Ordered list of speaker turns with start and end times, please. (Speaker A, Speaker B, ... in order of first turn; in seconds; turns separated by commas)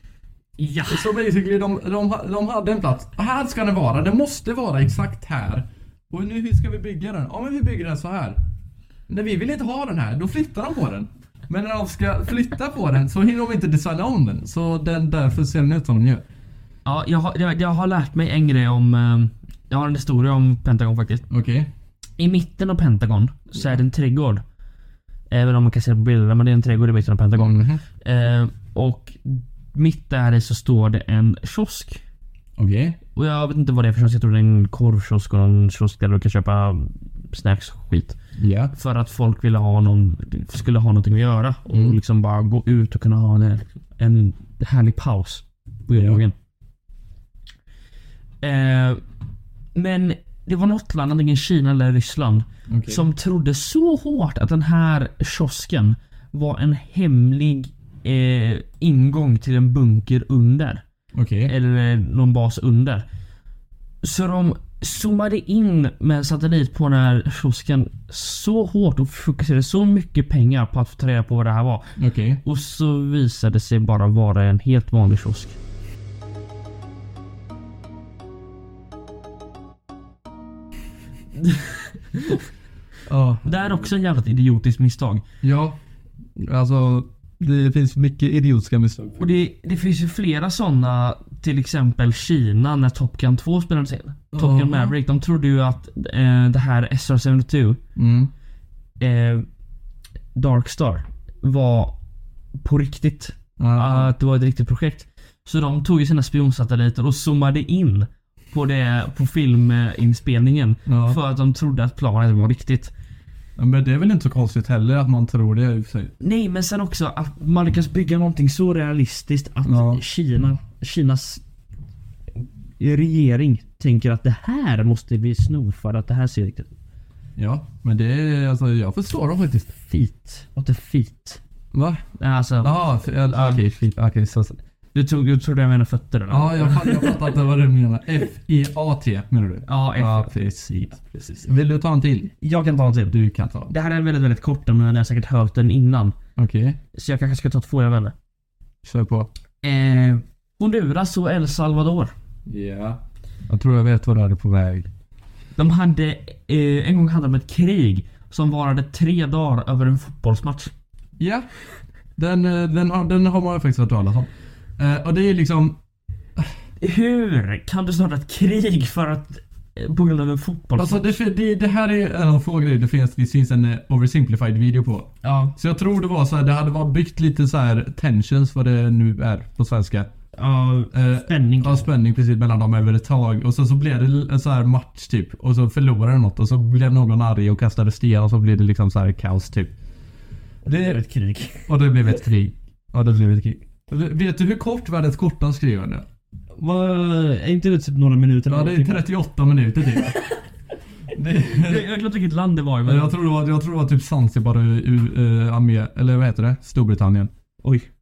Speaker A: 0.6-1.1, Speaker B: 0.9-8.4, Speaker B: 9.1-16.2, Speaker A: 16.9-21.2, Speaker B: 21.3-21.7, Speaker A: 22.2-24.4, Speaker A: 25.3-32.0, Speaker B: 27.4-27.8, Speaker B: 32.6-33.0, Speaker A: 33.2-38.2, Speaker B: 38.4-38.7, Speaker A: 38.7-46.3, Speaker B: 41.7-42.0, Speaker B: 45.9-46.2, Speaker A: 48.4-49.0, Speaker A: 49.8-60.8, Speaker B: 52.7-53.0, Speaker B: 61.1-61.5, Speaker A: 61.5-63.0, Speaker A: 64.0-71.9, Speaker B: 72.0-72.4, Speaker A: 72.4-75.6, Speaker A: 81.4-82.4, Speaker B: 83.1-83.9, Speaker A: 83.4-85.2, Speaker B: 85.4-85.8, Speaker B: 86.4-89.3, Speaker A: 89.2-97.8, Speaker B: 94.3-95.0, Speaker B: 98.0-98.3, Speaker A: 99.0-99.5, Speaker A: 100.3-102.0, Speaker A: 102.6-112.9, Speaker B: 103.6-104.1, Speaker B: 110.9-111.2, Speaker B: 113.6-116.1, Speaker A: 116.2-121.4, Speaker B: 119.7-120.0, Speaker A: 122.8-126.7, Speaker B: 127.4-129.8, Speaker A: 129.9-131.4, Speaker B: 131.7-132.0, Speaker A: 132.2-133.6, Speaker B: 132.6-134.6, Speaker A: 134.9-137.2, Speaker B: 136.3-142.3, Speaker A: 139.7-141.3, Speaker A: 142.4-143.2, Speaker B: 143.1-143.7, Speaker A: 143.7-146.2, Speaker B: 146.4-146.8, Speaker A: 146.9-148.2, Speaker B: 148.8-149.3, Speaker A: 149.6-152.1, Speaker B: 152.5-154.9, Speaker A: 155.6-160.7, Speaker B: 161.2-161.5, Speaker B: 162.2-165.8, Speaker A: 166.8-171.1, Speaker B: 170.8-180.1, Speaker A: 175.2-175.6, Speaker A: 180.4-181.9, Speaker B: 180.9-189.7, Speaker B: 190.7-191.0, Speaker A: 190.7-191.7, Speaker B: 191.7-196.1, Speaker A: 196.6-199.1, Speaker B: 198.5-200.2, Speaker B: 201.1-201.9, Speaker A: 201.5-203.1, Speaker B: 202.9-207.3, Speaker A: 207.6-207.9